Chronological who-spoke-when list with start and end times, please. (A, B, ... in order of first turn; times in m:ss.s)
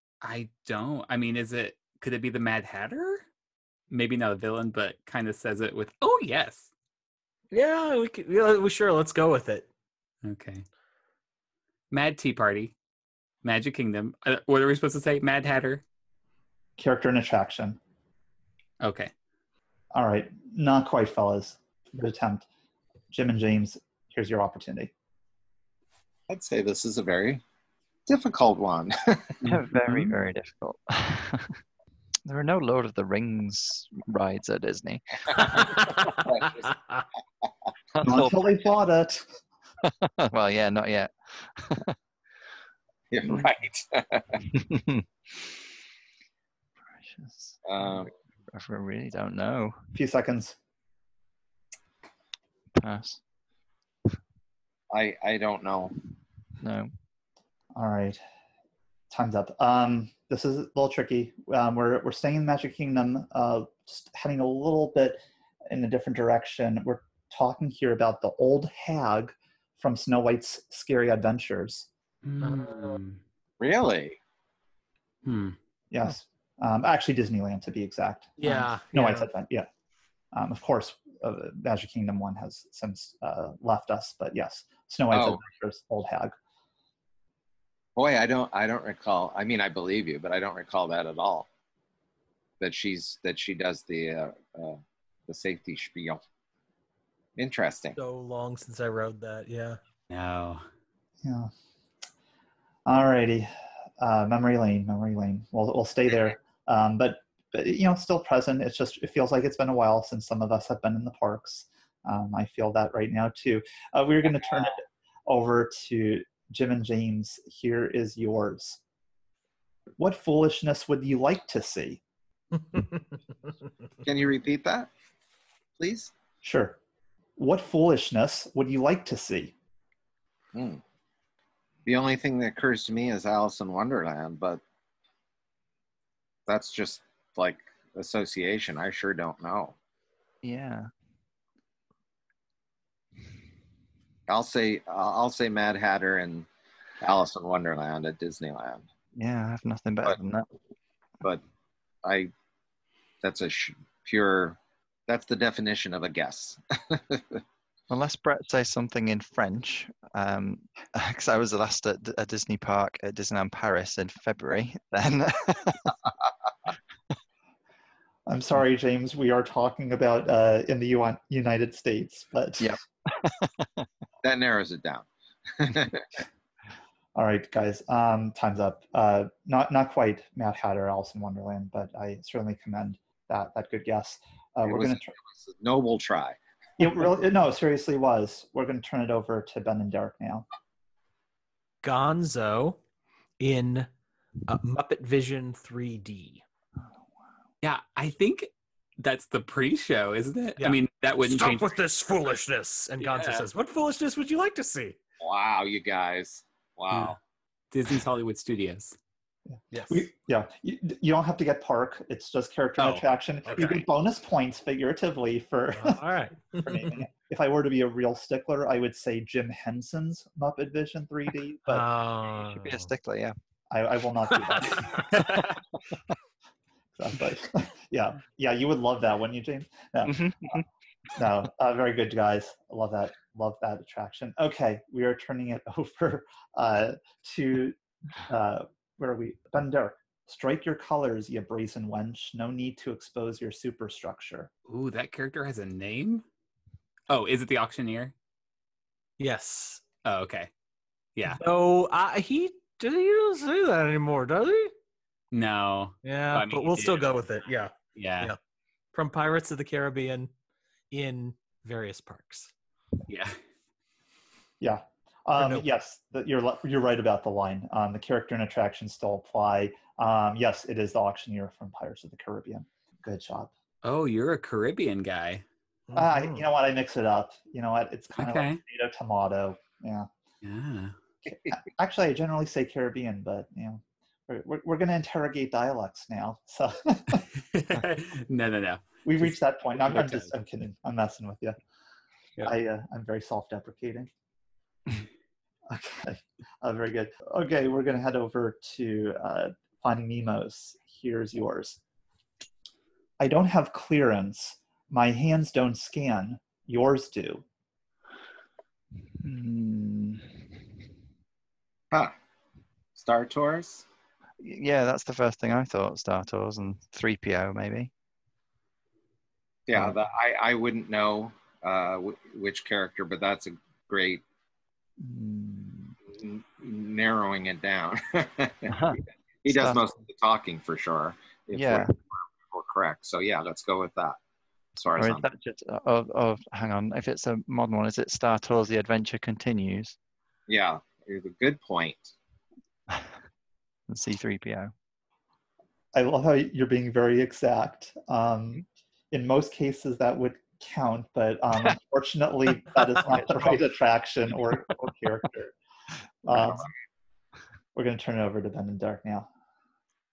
0:00.2-0:03.2 A
0:03.9-0:06.7 A
0:07.5-0:09.7 B
0:10.2-0:10.6 A
0:11.9-0:12.7 A
0:13.4-0:15.8 A
0:16.8-0:17.8 C
0:18.8-0:19.1 A
0:19.9-0:22.5 C
0:23.1-0:24.9 C
0:26.3-0:27.4 D
0:28.1-0:29.4 D
0:29.4-0:31.6 E
0:32.2-0:35.7 E
0:35.4-0:36.3 B
0:36.2-0:36.7 D
0:38.0-0:38.4 E
0:38.0-0:39.2 C
0:39.8-0:42.0 E
0:43.1-0:44.4 D
0:44.5-0:45.6 E
0:46.9-0:49.8 E
0:47.6-0:48.1 D
0:49.9-0:50.6 C
0:52.8-0:53.2 E
0:54.9-0:55.9 D
0:56.6-0:56.9 E
0:57.8-0:58.2 C
0:59.1-1:11.9 C
1:12.2-1:13.2 A
1:12.4-1:13.0 B
1:13.6-1:14.2 D
1:15.2-1:15.6 A
1:15.9-1:19.7 C
1:18.4-1:19.3 B
1:20.3-1:26.4 C
1:25.1-1:25.4 D
1:28.0-1:31.5 D
1:32.6-1:36.2 D
1:37.4-1:38.0 D
1:38.0-1:39.8 B
1:40.1-1:40.6 A
1:41.2-1:41.5 C
1:42.9-1:58.8 C
2:00.0-2:02.0 C
2:02.7-2:03.0 B
2:04.0-2:04.9 D
2:05.8-2:06.1 D
2:06.4-2:06.8 C
2:07.4-2:09.5 C
2:10.5-2:10.8 D
2:11.9-2:14.6 D
2:16.5-2:19.8 D
2:20.4-2:20.9 E
2:24.3-2:26.5 D
2:27.0-2:28.9 D
2:29.2-2:30.5 E
2:32.0-2:32.3 D
2:33.2-2:34.6 D
2:35.1-2:37.4 D
2:37.9-2:46.0 E
2:48.3-2:52.8 C
2:52.6-2:53.8 E
2:54.2-2:56.2 D
2:57.2-3:05.1 C
3:04.6-3:06.4 D
3:06.8-3:10.5 C
3:11.8-3:12.8 B
3:13.4-3:13.9 B
3:14.5-3:16.4 B
3:17.6-3:21.8 A
3:20.6-3:25.0 B
3:23.0-3:23.4 A
3:25.2-3:27.2 D
3:26.9-3:27.2 A
3:27.7-3:29.0 A
3:29.5-3:36.0 C
3:29.7-3:30.1 B
3:35.8-3:37.0 B
3:36.6-3:41.9 C
3:41.7-3:42.9 B
3:42.4-3:43.4 E
3:43.7-3:45.2 C
3:44.6-3:45.3 B
3:47.0-3:50.6 C
3:50.0-3:50.6 E
3:51.2-4:04.5 C
4:04.7-4:06.2 A
4:07.1-4:08.1 A
4:09.2-4:09.8 B
4:10.0-4:10.5 A
4:11.2-4:11.4 A
4:11.3-4:14.7 B
4:15.3-4:17.2 A
4:16.0-4:18.4 B
4:18.0-4:18.3 A
4:18.9-4:20.3 B
4:20.9-4:22.5 B
4:23.1-4:23.4 A
4:24.6-4:33.5 C
4:25.4-4:25.7 B
4:33.8-4:35.4 A
4:35.9-4:36.4 B
4:36.0-4:40.1 C
4:38.2-4:38.6 A
4:40.4-4:40.9 A
4:41.3-4:47.2 C
4:47.5-4:49.3 A
4:49.0-4:51.6 C
4:49.9-4:50.3 A
4:52.4-4:54.1 C
4:55.7-5:01.8 C
5:03.2-5:07.4 C
5:09.2-5:10.6 E
5:13.0-5:13.8 D
5:14.4-5:17.9 E
5:19.7-5:24.2 D
5:25.0-5:26.0 E
5:26.1-5:28.8 D
5:28.7-5:29.8 E
5:29.4-5:34.2 D
5:31.5-5:31.9 E
5:34.8-5:35.2 D
5:35.0-5:40.0 E
5:40.5-5:42.1 D
5:42.9-5:43.2 E
5:43.9-5:44.7 E
5:45.9-5:55.5 C
5:53.1-5:53.6 E
5:56.3-5:56.7 C
5:56.3-5:56.7 D
5:57.8-5:59.3 C